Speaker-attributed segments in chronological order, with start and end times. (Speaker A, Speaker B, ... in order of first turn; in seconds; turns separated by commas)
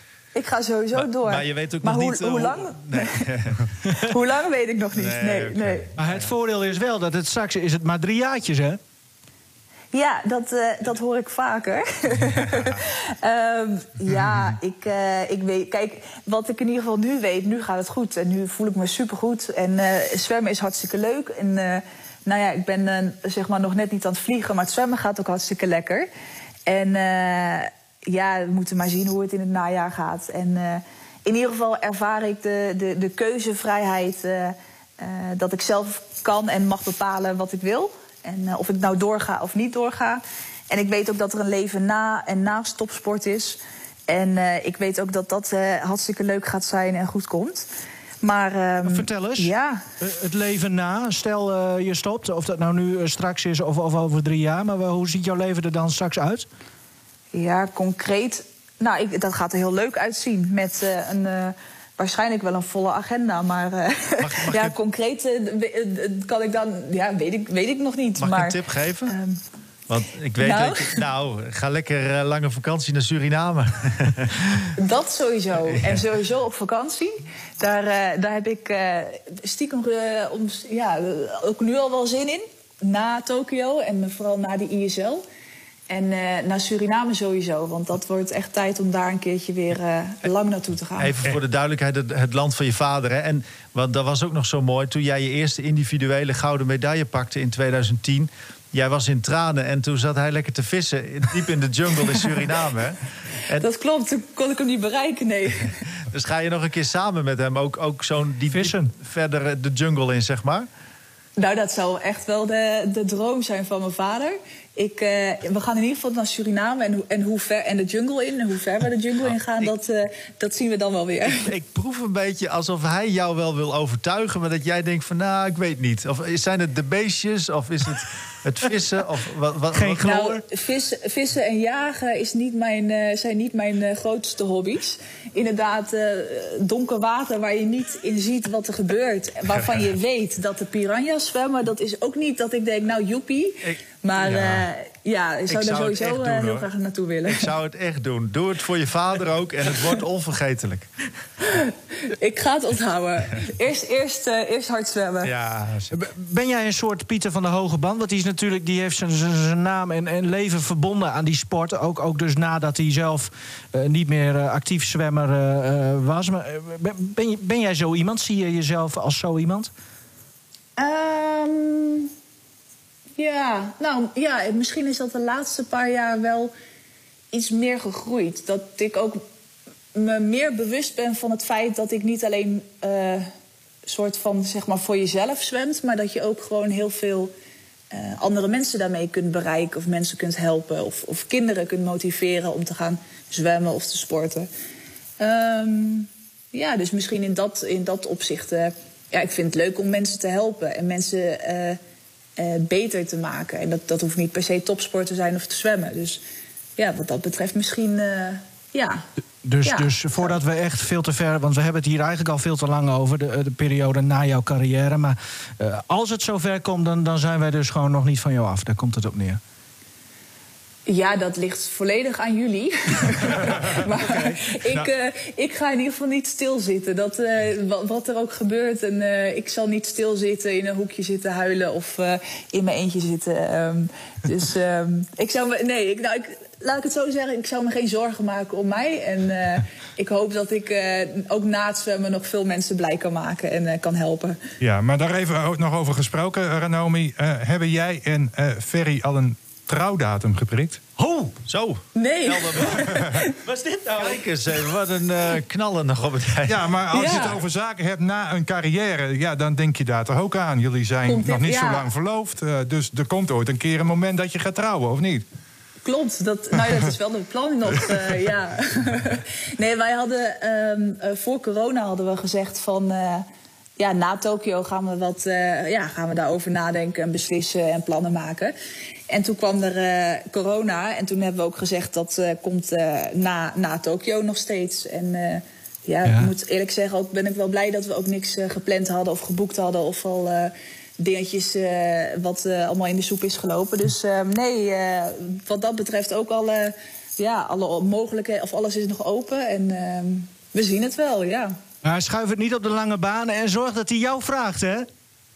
Speaker A: 0.3-3.3, Speaker B: 0.9-3.8, Speaker A: 3.9-5.9, Speaker B: 5.0-6.3, Speaker C: 6.0-8.8, Speaker A: 9.9-26.1, Speaker A: 26.7-47.7, Speaker A: 48.2-49.8, Speaker C: 48.9-56.5, Speaker A: 57.3-69.4, Speaker B: 64.2-64.8, Speaker B: 68.2-69.2, Speaker B: 69.9-74.7, Speaker A: 70.4-71.0, Speaker A: 74.8-85.2, Speaker B: 75.7-76.0, Speaker A: 85.9-91.1, Speaker B: 91.0-103.7, Speaker A: 103.6-105.8, Speaker B: 106.1-110.7, Speaker C: 108.5-108.9, Speaker A: 111.4-121.5, Speaker B: 119.3-119.7, Speaker B: 121.3-130.1, Speaker C: 129.7-130.4, Speaker A: 130.1-147.5, Speaker B: 143.6-144.7, Speaker B: 145.5-146.7, Speaker B: 147.3-150.9, Speaker A: 151.4-155.3, Speaker B: 155.2-156.0, Speaker C: 155.9-169.7, Speaker A: 170.8-172.1, Speaker A: 173.2-176.5, Speaker A: 177.3-179.2, Speaker A: 179.9-183.3, Speaker A: 183.8-187.3, Speaker A: 187.9-194.5, Speaker A: 195.2-201.8, Speaker A: 202.4-206.2, Speaker A: 206.8-209.1, Speaker C: 209.4-219.4, Speaker A: 209.6-210.3, Speaker A: 220.9-244.4, Speaker D: 244.6-250.8, Speaker B: 251.4-253.3, Speaker A: 251.9-253.3, Speaker B: 253.8-256.7, Speaker D: 256.5-265.2, Speaker A: 256.9-257.4, Speaker A: 261.1-261.9, Speaker A: 265.9-273.3, Speaker A: 273.8-278.5, Speaker A: 279.1-301.6, Speaker C: 286.1-286.3, Speaker C: 301.8-304.9